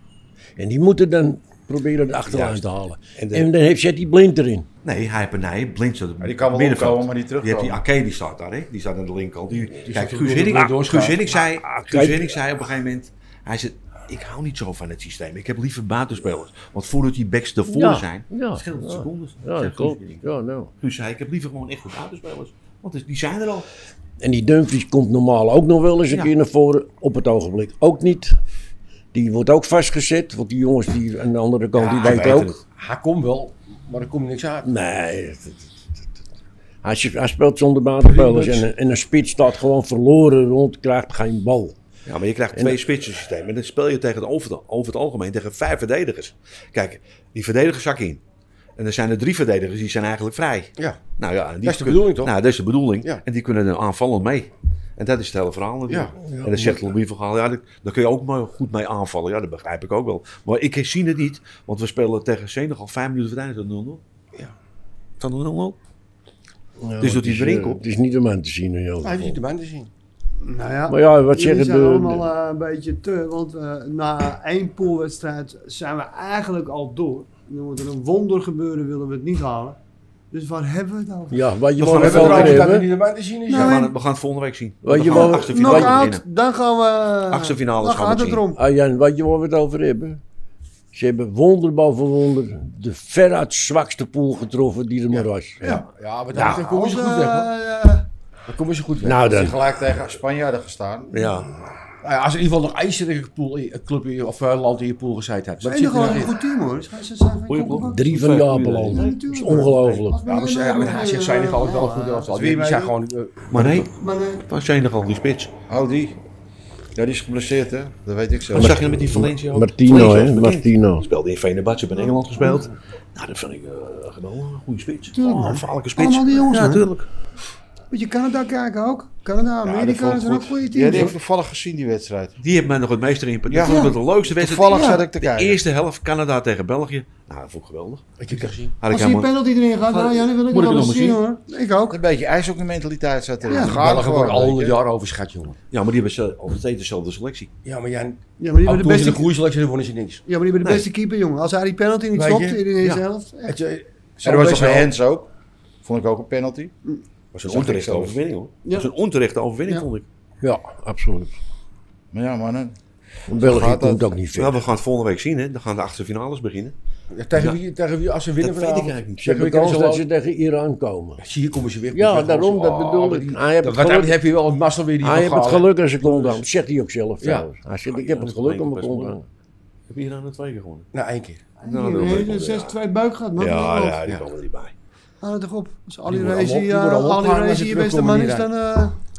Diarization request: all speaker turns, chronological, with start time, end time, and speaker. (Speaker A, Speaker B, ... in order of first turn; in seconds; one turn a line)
Speaker A: 0.6-4.7
Speaker B: 2.3-2.6
Speaker B: 3.1-3.5
Speaker B: 4.8-20.2
Speaker C: 6.2-7.8
Speaker D: 9.8-11.4
Speaker A: 11.7-12.4
Speaker A: 17.7-20.7
Speaker B: 20.8-23.7
Speaker A: 24.2-28.4
Speaker A: 29.1-32.6
Speaker D: 31.8-34.7
Speaker B: 31.9-32.6
Speaker A: 34.6-36.0
Speaker A: 36.8-41.7
Speaker D: 38.0-38.7
Speaker B: 42.0-48.2
Speaker B: 48.8-64.0
Speaker D: 51.6-52.3
Speaker D: 55.9-56.1
Speaker A: 56.1-56.8
Speaker B: 65.2-65.8
Speaker A: 66.8-69.4
Speaker B: 67.0-67.8
Speaker D: 69.0-69.9
Speaker E: 70.4-79.8
Speaker A: 70.9-72.3
Speaker E: 80.3-81.5
Speaker A: 81.3-82.9
Speaker B: 81.8-82.7
Speaker D: 81.9-83.8
Speaker E: 82.1-82.3
Speaker E: 83.5-83.9
Speaker B: 83.5-86.2
Speaker A: 84.8-86.1
Speaker E: 85.0-88.6
Speaker B: 87.3-88.4
Speaker A: 88.5-90.2
Speaker A: 90.9-95.8
Speaker D: 95.1-97.5
Speaker E: 95.6-98.1
Speaker D: 98.5-99.3
Speaker A: 99.0-99.6
Speaker C: 99.3-101.1
Speaker B: 101.1-101.5
Speaker D: 102.0-106.4
Speaker E: 105.6-108.0
Speaker B: 107.5-110.0
Speaker A: 107.8-110.2
Speaker E: 108.9-112.5
Speaker D: 110.2-113.8
Speaker C: 112.3-113.0
Speaker B: 113.5-113.9
Speaker E: 113.9-114.4
Speaker B: 114.5-115.5
Speaker C: 115.7-116.2
Speaker C: 116.9-118.8
Speaker A: 118.5-121.1
Speaker B: 118.5-127.1
Speaker E: 122.0-122.7
Speaker E: 125.1-126.8
Speaker E: 127.9-131.1
Speaker C: 129.6-132.4
Speaker B: 132.4-139.3
Speaker C: 133.5-135.6
Speaker E: 133.6-133.9
Speaker E: 134.7-135.0
Speaker D: 138.2-138.7
Speaker E: 138.9-142.0
Speaker B: 139.8-141.2
Speaker C: 141.9-144.8
Speaker E: 143.5-143.8
Speaker D: 143.5-145.6
Speaker B: 145.7-147.5
Speaker D: 147.6-150.2
Speaker E: 148.4-149.3
Speaker E: 150.3-153.6
Speaker D: 152.1-152.7
Speaker D: 153.4-154.9
Speaker C: 154.2-155.3
Speaker C: 155.8-156.7
Speaker B: 157.3-160.0
Speaker C: 157.4-158.2
Speaker E: 158.6-158.9
Speaker A: 160.4-161.3
Speaker C: 162.1-162.8
Speaker A: 163.3-164.6
Speaker C: 163.3-164.2
Speaker B: 164.3-166.7
Speaker D: 167.1-170.1
Speaker B: 168.4-169.3
Speaker A: 169.2-171.2
Speaker D: 171.2-176.4
Speaker A: 171.9-174.2
Speaker A: 175.0-179.2
Speaker D: 177.2-177.5
Speaker B: 177.9-179.2
Speaker B: 179.9-180.9
Speaker D: 180.9-181.4
Speaker E: 181.6-184.0
Speaker B: 181.6-182.8
Speaker B: 183.4-184.7
Speaker E: 185.2-188.9
Speaker D: 186.1-188.5